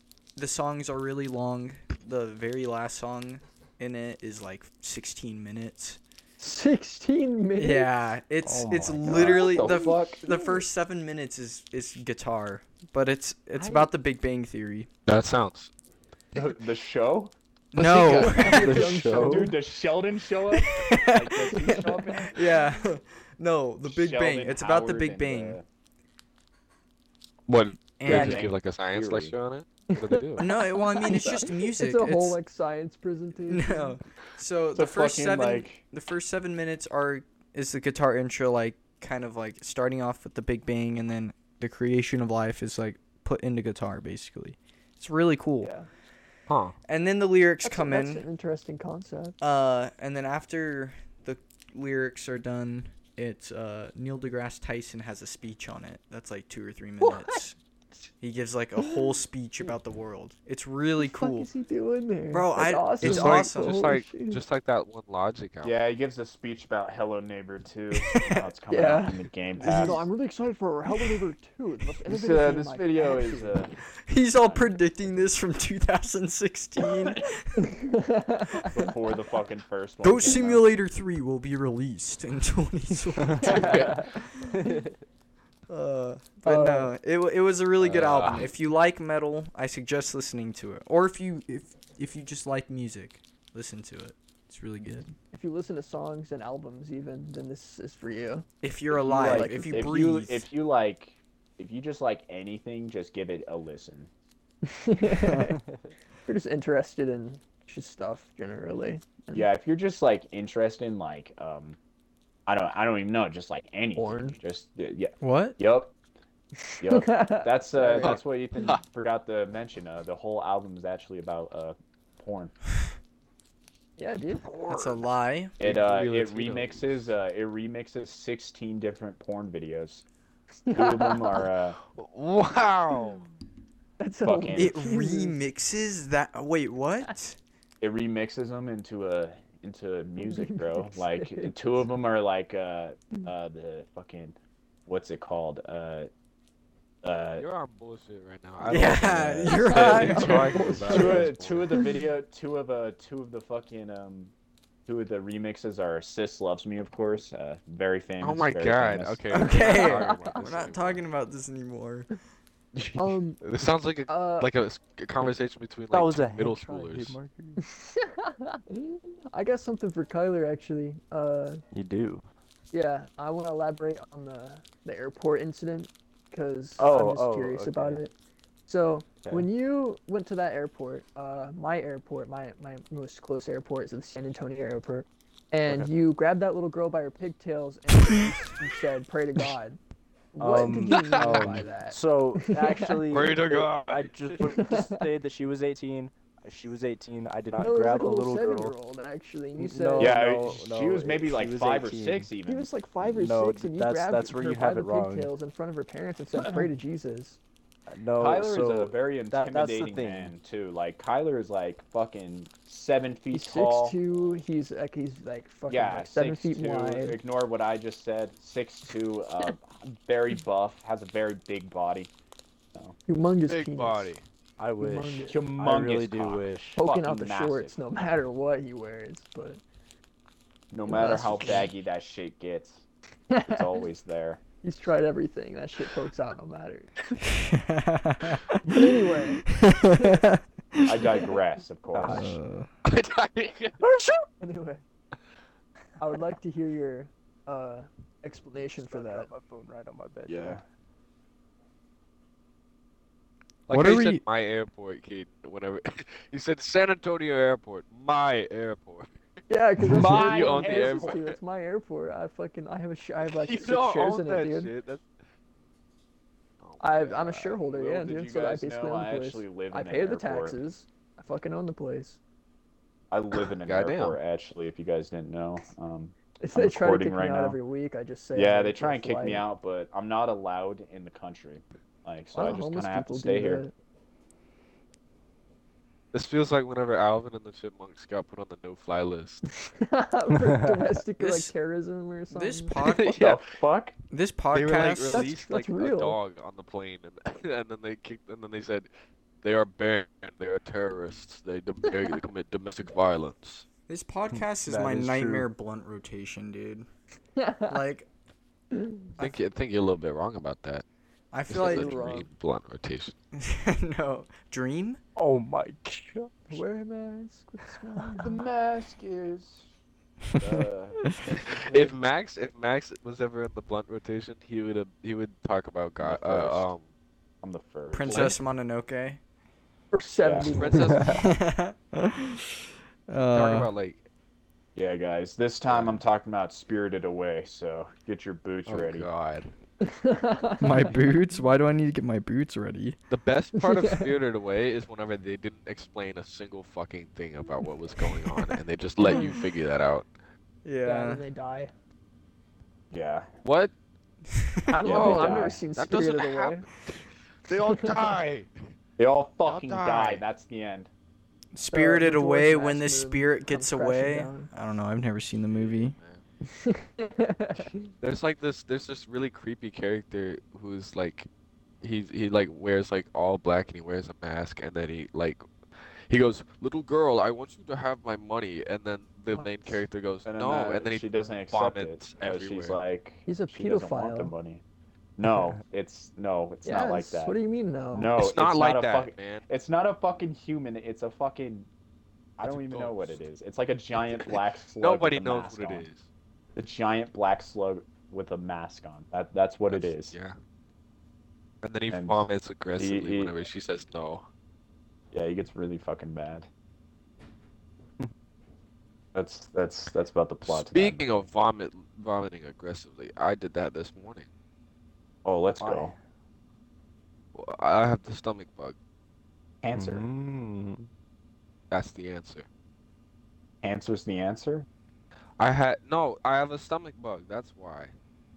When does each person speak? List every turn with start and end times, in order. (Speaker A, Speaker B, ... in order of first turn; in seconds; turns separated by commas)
Speaker A: 0.4-6.0, Speaker B: 6.4-8.0, Speaker A: 7.6-14.9, Speaker C: 8.4-9.4, Speaker D: 9.1-10.2, Speaker B: 9.3-10.7, Speaker B: 13.6-13.9, Speaker E: 15.1-15.7, Speaker D: 16.3-17.3, Speaker A: 17.7-19.1, Speaker E: 17.8-18.8, Speaker B: 18.2-19.6, Speaker C: 18.6-19.5, Speaker D: 19.1-22.5, Speaker A: 20.5-25.6, Speaker B: 21.6-22.7, Speaker D: 23.8-25.6, Speaker E: 27.5-30.5, Speaker A: 28.0-28.5, Speaker D: 28.1-29.4, Speaker B: 29.9-34.0, Speaker A: 30.4-32.4, Speaker A: 33.5-45.7, Speaker D: 34.7-35.8, Speaker B: 45.6-45.9, Speaker E: 46.5-46.8, Speaker A: 46.9-48.2, Speaker B: 47.6-49.4, Speaker A: 49.4-57.6, Speaker B: 57.0-57.4, Speaker A: 58.2-61.5, Speaker B: 58.8-59.7, Speaker B: 61.0-64.4, Speaker A: 62.3-63.8, Speaker E: 63.0-65.8, Speaker D: 65.6-70.1, Speaker A: 68.1-68.5, Speaker B: 68.7-73.7, Speaker D: 72.1-73.8, Speaker A: 74.1-77.8, Speaker B: 77.6-78.8, Speaker D: 78.7-80.7, Speaker A: 80.0-84.6, Speaker B: 83.4-84.8, Speaker E: 83.4-84.0, Speaker C: 84.6-84.9, Speaker A: 85.7-95.1, Speaker B: 86.4-86.9, Speaker E: 87.8-88.5, Speaker B: 95.3-98.5, Speaker A: 98.6-100.5, Speaker D: 98.9-104.1, Speaker B: 99.1-100.0, Speaker B: 104.6-105.6, Speaker A: 105.1-105.5, Speaker B: 106.3-109.5, Speaker D: 109.3-111.8, Speaker D: 112.5-115.9, Speaker B: 114.0-114.4, Speaker A: 115.2-115.6, Speaker B: 116.6-118.2, Speaker D: 116.8-122.5, Speaker E: 118.0-118.8, Speaker B: 124.0-124.4, Speaker D: 124.5-125.0, Speaker A: 124.7-125.5, Speaker E: 125.6-127.1, Speaker D: 125.6-130.0, Speaker B: 130.7-131.5, Speaker D: 130.7-131.8, Speaker E: 131.9-133.3, Speaker B: 134.0-135.4, Speaker D: 134.2-134.8, Speaker A: 134.5-137.4, Speaker D: 137.8-146.1, Speaker B: 140.2-141.5, Speaker D: 147.0-147.5, Speaker E: 147.4-151.7, Speaker D: 148.6-150.2, Speaker A: 148.7-150.7, Speaker B: 149.8-152.0, Speaker D: 150.8-154.3, Speaker D: 154.9-159.2, Speaker E: 158.2-161.0, Speaker A: 159.3-162.1, Speaker B: 159.4-160.2, Speaker B: 163.0-163.4, Speaker E: 163.4-167.2, Speaker B: 164.1-164.5, Speaker C: 165.9-167.6, Speaker B: 167.6-171.6, Speaker C: 171.7-172.2, Speaker B: 172.7-178.1, Speaker C: 176.8-178.0, Speaker B: 178.7-189.8, Speaker C: 179.2-179.5, Speaker B: 190.3-193.1, Speaker C: 190.4-198.7, Speaker E: 190.9-191.5, Speaker E: 193.1-194.3, Speaker B: 194.4-195.1, Speaker B: 197.6-200.2, Speaker C: 199.6-202.3, Speaker D: 200.0-202.7, Speaker B: 202.4-207.4, Speaker C: 203.1-205.3, Speaker D: 206.4-206.7, Speaker C: 207.9-210.3, Speaker D: 208.2-214.0, Speaker B: 213.3-217.2, Speaker D: 215.7-222.1, Speaker B: 223.1-224.1, Speaker E: 223.5-224.2, Speaker C: 224.6-226.8, Speaker B: 224.8-225.4, Speaker D: 225.3-227.8, Speaker B: 226.8-229.6, Speaker D: 230.7-232.8, Speaker B: 230.9-231.7, Speaker B: 233.3-233.7, Speaker D: 233.5-234.4, Speaker B: 234.6-236.9, Speaker A: 237.2-238.9, Speaker B: 238.6-240.2, Speaker A: 239.5-241.2, Speaker D: 240.8-242.4, Speaker C: 241.9-242.3, Speaker A: 242.0-242.7, Speaker E: 242.8-243.8, Speaker B: 244.4-244.8, Speaker B: 246.0-249.3, Speaker C: 248.8-250.6, Speaker D: 250.3-250.6, Speaker E: 253.7-259.1, Speaker A: 253.7-254.2, Speaker B: 259.5-264.7, Speaker D: 259.9-261.2, Speaker E: 259.9-261.4, Speaker E: 263.2-265.1, Speaker E: 266.6-267.6, Speaker B: 266.8-272.2, Speaker D: 267.7-270.6, Speaker D: 273.1-277.6, Speaker E: 273.6-274.2, Speaker B: 276.4-279.5, Speaker D: 278.3-283.6, Speaker B: 282.3-283.7, Speaker E: 286.1-289.4, Speaker B: 289.6-292.9, Speaker C: 290.4-290.8, Speaker A: 291.2-291.5, Speaker A: 292.3-293.2, Speaker E: 292.8-293.5, Speaker D: 293.2-293.9, Speaker A: 294.1-295.3, Speaker E: 294.5-298.9, Speaker B: 295.1-296.2, Speaker E: 299.4-303.7, Speaker A: 303.9-306.9, Speaker C: 304.3-305.5, Speaker B: 307.4-307.8, Speaker A: 307.7-308.1, Speaker B: 308.7-309.1, Speaker E: 309.2-310.8, Speaker A: 311.3-312.2, Speaker E: 311.5-313.1, Speaker B: 311.6-312.2, Speaker A: 313.3-315.0, Speaker C: 315.2-316.6, Speaker B: 316.5-318.4, Speaker D: 318.2-319.7, Speaker D: 320.4-321.9, Speaker E: 321.5-326.8, Speaker D: 326.0-326.7, Speaker D: 327.4-328.4, Speaker A: 327.9-329.2, Speaker B: 329.9-331.2, Speaker D: 330.2-330.5, Speaker E: 330.5-331.3, Speaker C: 330.8-331.2, Speaker A: 331.0-333.7, Speaker E: 333.3-334.1, Speaker D: 334.8-339.1, Speaker E: 335.7-336.0, Speaker E: 338.7-339.5, Speaker B: 339.8-341.1, Speaker A: 340.6-343.0, Speaker E: 343.1-350.1, Speaker B: 343.6-344.1, Speaker B: 349.1-349.3, Speaker A: 350.6-351.2, Speaker B: 350.8-351.7, Speaker D: 352.9-353.3, Speaker E: 353.4-353.7, Speaker A: 354.4-354.7, Speaker B: 354.7-356.7, Speaker E: 354.8-358.5, Speaker D: 354.8-355.6, Speaker B: 357.7-357.9, Speaker D: 359.0-360.9, Speaker E: 359.5-360.2, Speaker A: 361.5-365.9, Speaker B: 361.7-364.5, Speaker E: 365.5-366.2, Speaker B: 366.5-367.9, Speaker E: 368.0-371.3, Speaker E: 371.8-375.4, Speaker E: 376.1-382.8, Speaker B: 379.3-379.8, Speaker D: 380.2-384.6, Speaker B: 383.3-384.3, Speaker D: 385.2-387.4, Speaker B: 386.6-388.1, Speaker D: 387.9-391.7, Speaker E: 388.1-389.4, Speaker D: 392.4-395.9, Speaker E: 392.4-393.2, Speaker E: 394.0-396.1, Speaker D: 396.6-400.1, Speaker E: 399.7-400.4, Speaker E: 401.6-404.3, Speaker D: 401.9-403.3, Speaker D: 405.1-406.5, Speaker D: 409.1-411.2, Speaker E: 410.4-414.3, Speaker D: 415.2-415.9, Speaker C: 415.6-416.0, Speaker E: 417.4-418.8, Speaker D: 419.6-420.1, Speaker C: 419.7-420.9, Speaker E: 421.7-422.5, Speaker D: 423.6-424.7, Speaker E: 425.4-427.9